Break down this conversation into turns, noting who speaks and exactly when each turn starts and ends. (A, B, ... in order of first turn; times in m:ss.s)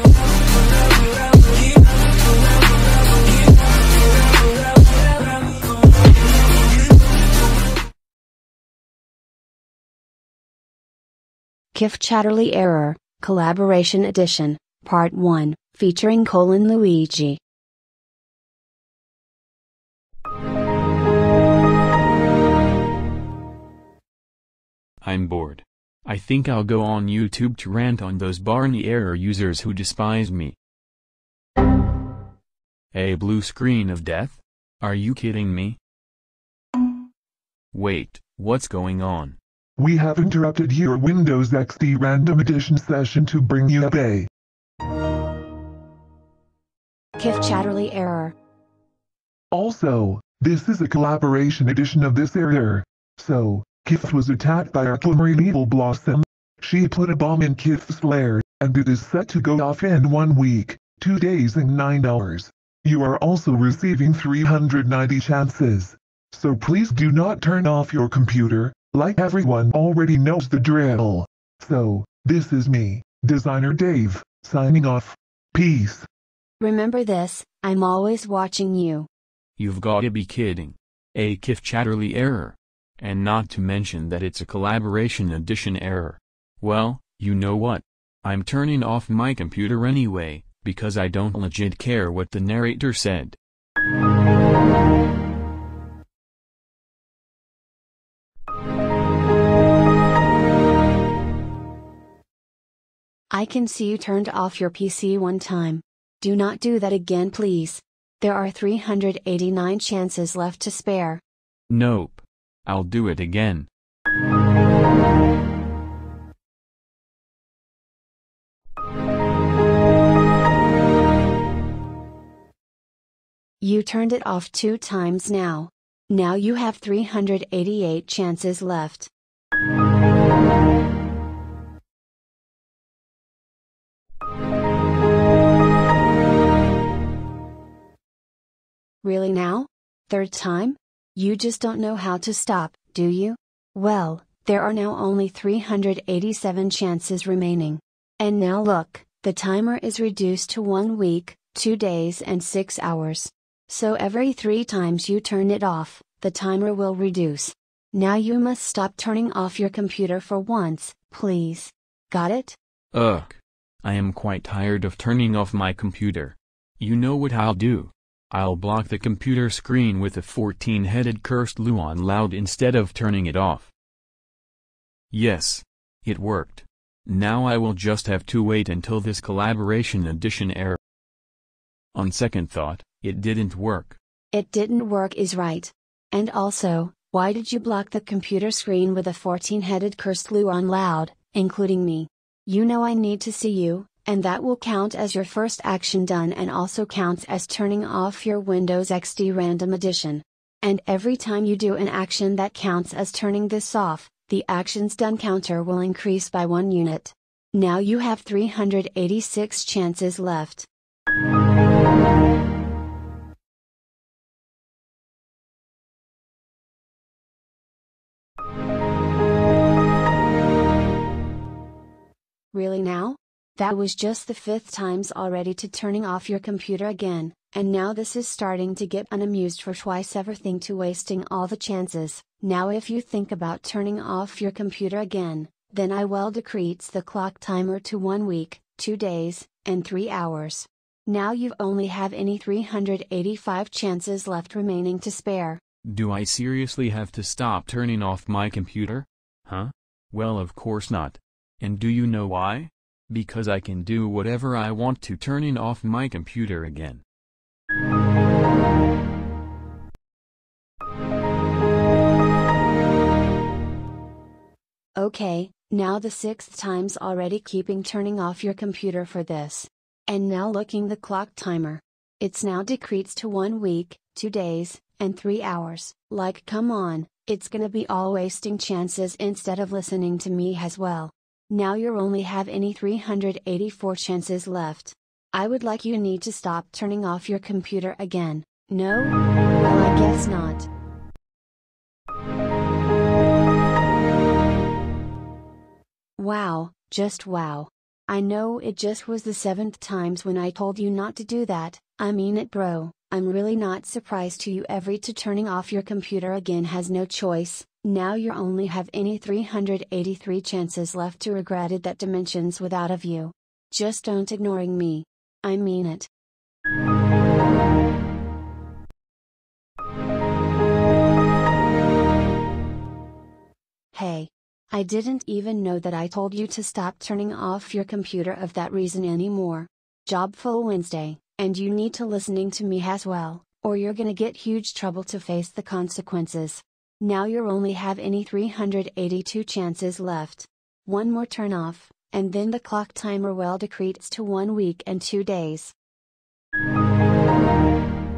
0:11.7-0:17.4 A
0:25.0-0:30.6 B
0:32.9-0:35.8 B
0:37.7-0:39.4 B
0:39.8-0:44.3 C
0:47.2-0:48.3 A
0:49.5-1:16.1 C
1:16.6-1:19.1 A
1:19.6-1:33.4 B
1:43.3-1:51.2 A
1:51.7-1:53.7 B
2:03.6-2:09.1 A
2:19.0-2:42.6 A
2:42.9-2:53.7 B
2:55.1-3:00.8 B
3:01.9-3:04.0 B
3:04.3-3:30.7 A
3:42.5-4:05.6 A
4:05.8-4:17.0 B
4:25.0-4:50.7 A
4:56.2-5:16.1 A
5:23.9-5:45.7 A